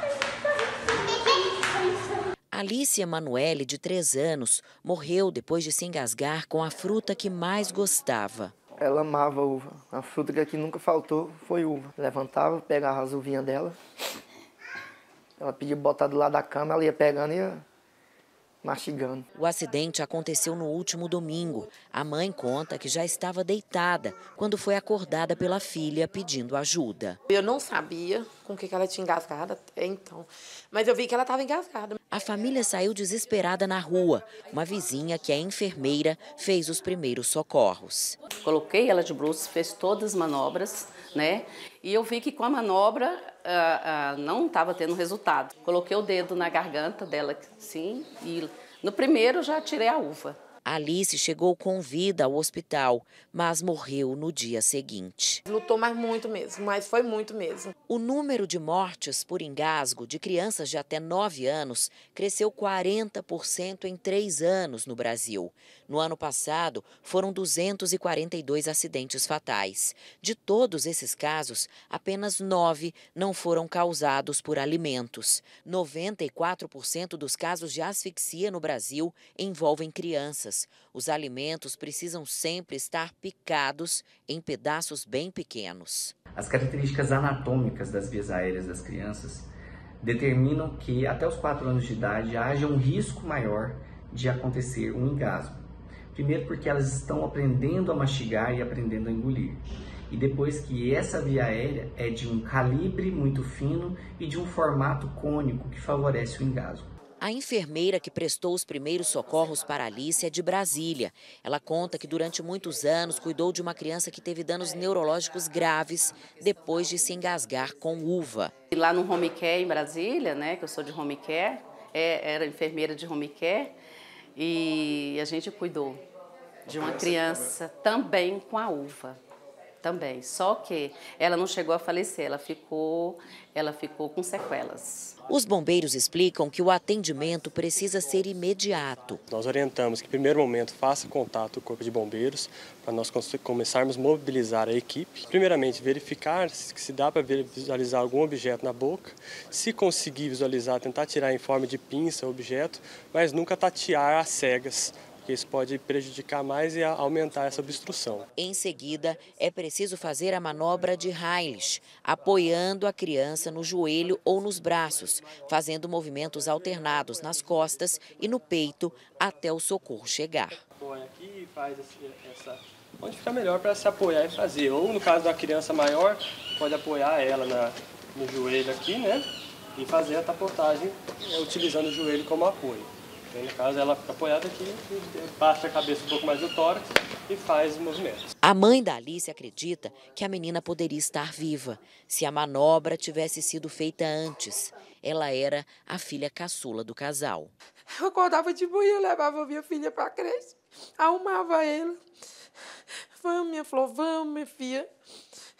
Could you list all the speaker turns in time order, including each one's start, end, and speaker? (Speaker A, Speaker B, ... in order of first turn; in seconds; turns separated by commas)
Speaker A: 2.5-8.5, Speaker B: 8.8-13.8, Speaker B: 15.4-17.6, Speaker B: 18.6-19.2, Speaker A: 19.4-27.2, Speaker C: 27.3-32.0, Speaker A: 32.1-38.2, Speaker D: 38.4-50.4, Speaker A: 50.6-55.4, Speaker C: 55.5-57.7, Speaker A: 57.9-86.1, Speaker E: 86.3-89.5, Speaker E: 90.0-106.9, Speaker A: 107.2-118.5, Speaker D: 118.7-123.7, Speaker D: 124.3-126.0, Speaker D: 126.7-129.2, Speaker D: 129.8-135.1, Speaker A: 135.3-139.2, Speaker F: 139.3-158.3, Speaker A: 158.3-170.6, Speaker F: 170.8-188.3, Speaker A: 188.4-197.5, Speaker C: 198.0-202.0, Speaker C: 203.2-204.9